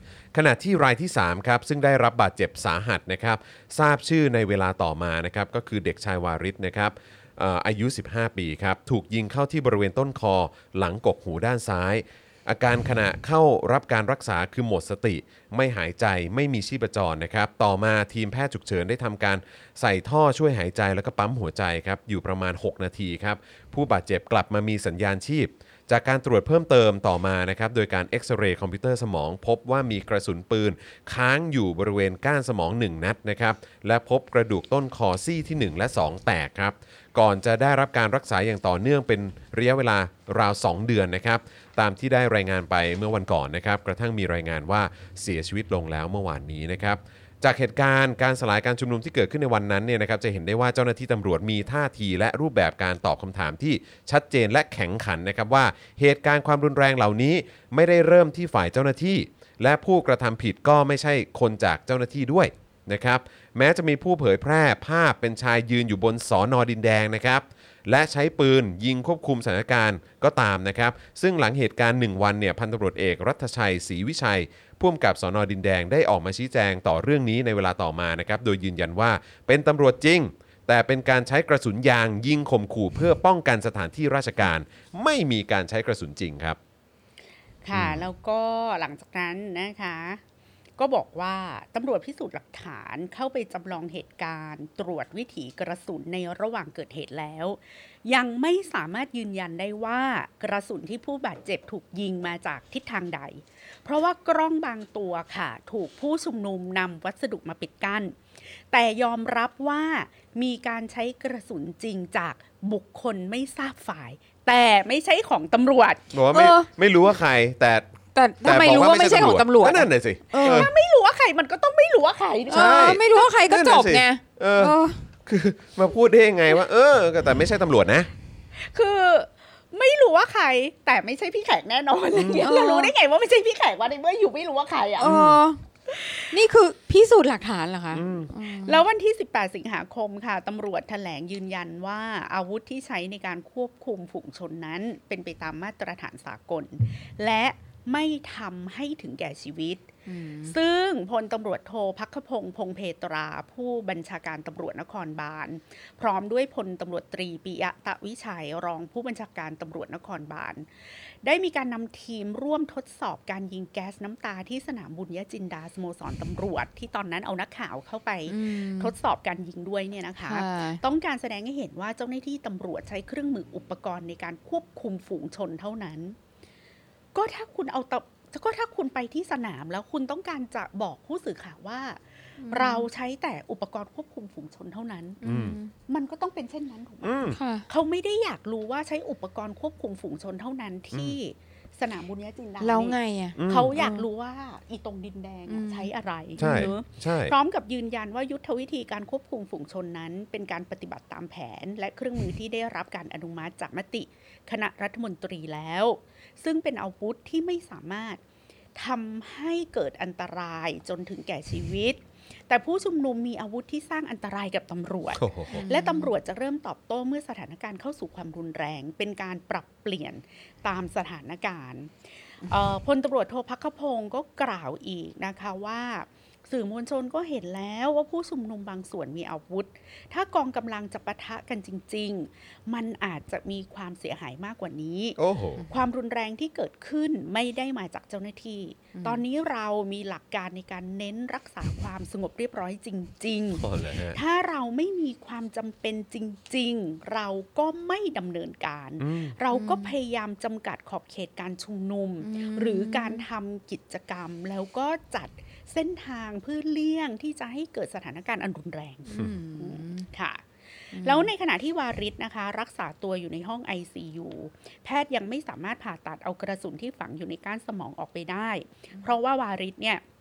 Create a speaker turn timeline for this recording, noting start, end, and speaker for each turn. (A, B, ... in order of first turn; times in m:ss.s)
0:00.3-1:26.6 A
1:27.6-1:30.2 B
1:27.7-1:28.0 A
1:30.8-1:56.2 B
1:56.1-1:57.8 A
1:56.3-1:56.7 C
1:58.2-2:00.7 C
1:58.4-2:00.7 A
2:00.4-2:03.2 B
2:02.5-2:05.0 C
2:02.5-2:08.1 A
2:08.6-2:15.4 B
2:12.2-2:12.9 C
2:15.0-2:15.6 C
2:15.1-2:15.4 A
2:15.9-2:16.3 B
2:16.3-2:18.8 C
2:17.9-2:18.3 A
2:18.6-2:29.9 B
2:30.1-2:30.6 C
2:30.5-2:56.2 B
2:48.3-2:48.9 C
2:50.2-2:50.8 C
2:57.1-3:05.2 B
3:02.4-3:02.9 C
3:05.2-3:05.7 C
3:05.2-3:05.6 A
3:05.9-3:28.2 B
3:07.0-3:07.4 A
3:07.3-3:07.7 C
3:12.6-3:14.1 C
3:13.4-3:13.7 A
3:15.5-3:16.8 C
3:16.4-3:17.4 A
3:28.8-3:41.9 B
3:35.1-3:35.6 A
3:35.5-3:36.1 C
3:42.4-4:30.0 B
3:55.2-3:55.6 A
3:58.9-3:59.2 C
4:03.5-4:04.2 A
4:09.0-4:09.4 A
4:09.5-4:09.9 C
4:12.2-4:13.2 C
4:19.1-4:20.1 C
4:20.9-4:21.3 C